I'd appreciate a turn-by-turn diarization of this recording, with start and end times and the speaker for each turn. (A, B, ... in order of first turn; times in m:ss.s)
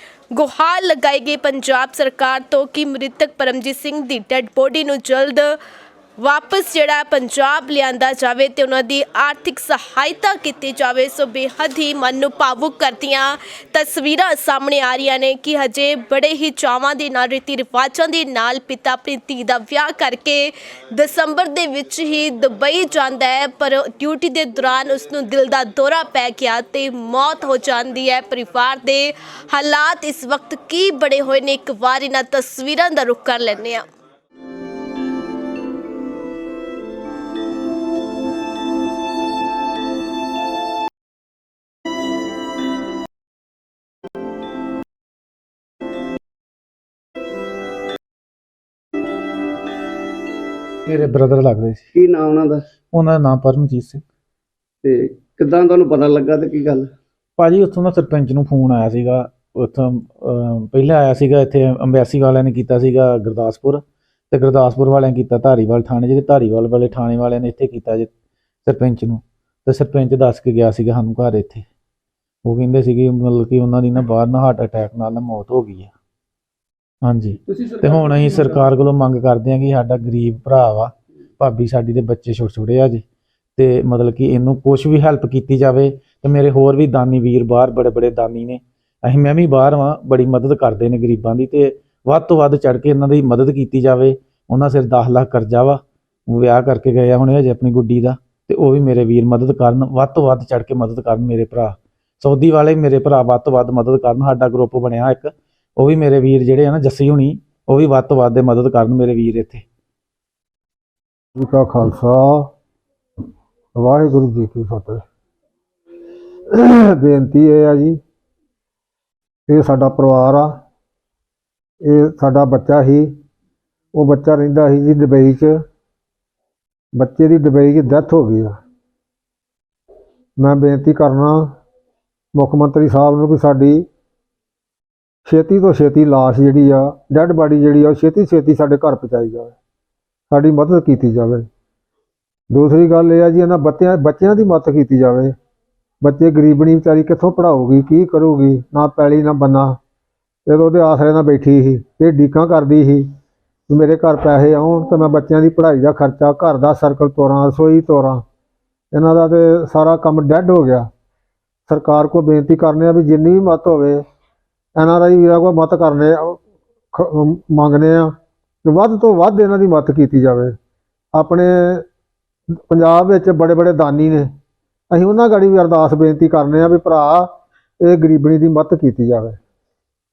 0:00.3-0:05.6 A
0:06.2-0:33.9 A
0:50.9-0:51.8 B
0:51.9-0:52.6 C
0:52.9-0:54.0 B
0:54.8-0:56.9 C
0:57.4-1:08.1 B
1:08.6-1:11.7 B
1:12.4-1:15.9 B
1:17.0-1:23.0 B
1:17.5-1:18.6 C
1:23.6-1:49.6 B
1:51.4-1:52.5 D
1:53.8-1:55.0 D
1:56.5-1:58.0 D
1:59.5-2:00.6 D
2:01.8-2:03.1 D
2:03.9-2:05.6 D
2:07.0-2:08.6 D
2:10.4-2:11.5 D
2:12.3-2:13.8 D
2:15.3-2:19.6 D
2:20.3-2:21.4 D
2:22.5-2:25.3 D
2:26.0-2:29.8 D
2:30.5-2:33.1 D
2:33.7-2:38.2 D
2:38.9-2:40.9 D
2:41.7-2:44.0 D
2:44.8-2:46.4 D
2:46.9-2:48.1 D
2:48.6-2:50.5 D
2:51.2-2:51.8 D
2:52.7-2:54.3 D
2:54.9-2:57.3 D
2:57.8-2:59.4 D